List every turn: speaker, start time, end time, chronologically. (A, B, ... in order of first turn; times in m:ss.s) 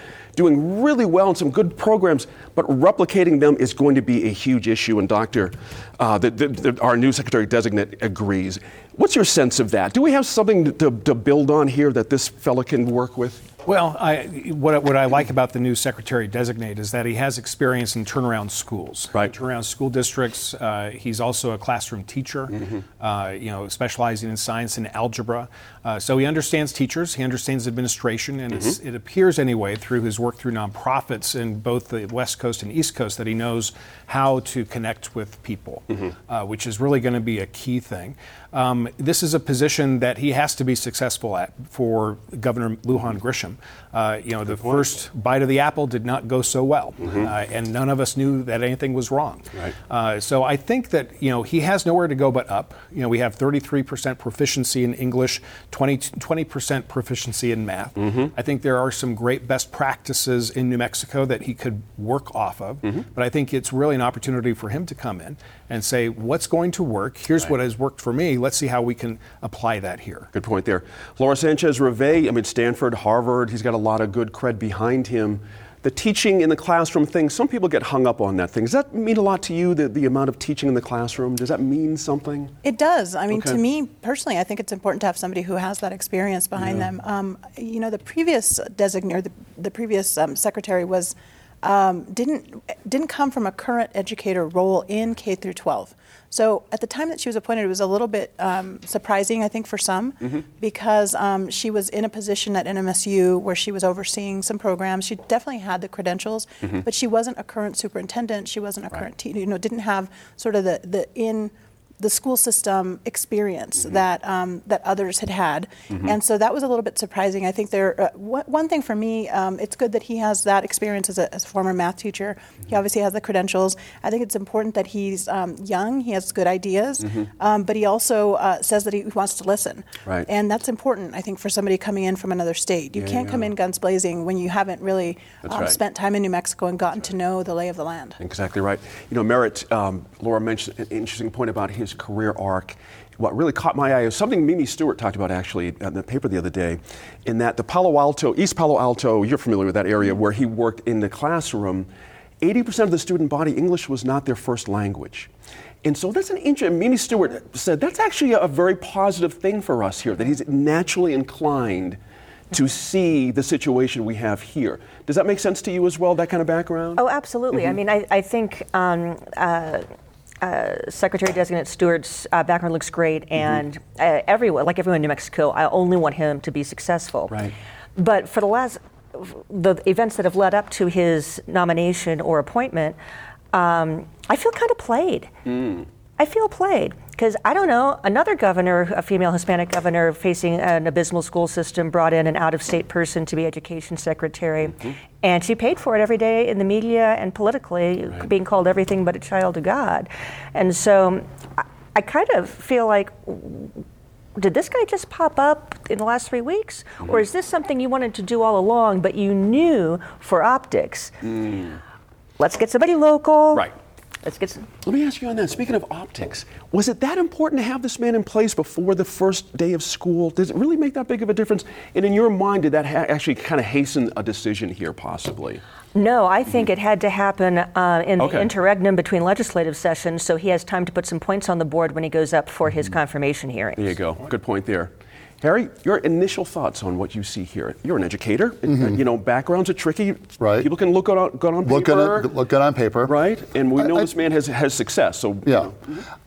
0:00.4-0:13.5 A
0:13.6-1:10.3 B
0:44.5-0:44.8 A
0:47.0-0:47.3 A
0:58.0-0:58.3 A
1:10.3-1:22.5 A
1:22.6-2:18.2 C
1:23.3-1:23.6 A
1:26.6-1:26.9 A
2:12.9-2:13.5 A
2:15.4-2:15.8 A
2:18.2-2:31.9 A
2:32.4-2:35.3 A
2:35.8-2:42.0 A
2:42.5-2:47.0 A
2:47.0-2:49.8 D
2:50.4-3:03.0 D
3:03.5-3:05.4 D
3:05.5-3:05.8 A
3:06.2-3:23.8 D
3:24.4-3:31.2 D
3:31.3-3:31.8 A
3:32.4-3:33.7 D
3:34.2-3:34.6 D
3:34.8-3:45.6 A
3:45.9-3:54.0 D
3:48.2-3:48.5 A
3:53.8-3:54.9 A
3:55.4-4:02.3 A
3:58.7-3:59.0 E
4:00.4-4:00.7 E
4:01.6-4:03.2 E
4:03.0-4:06.0 A
4:03.8-4:04.1 E
4:05.4-4:05.7 E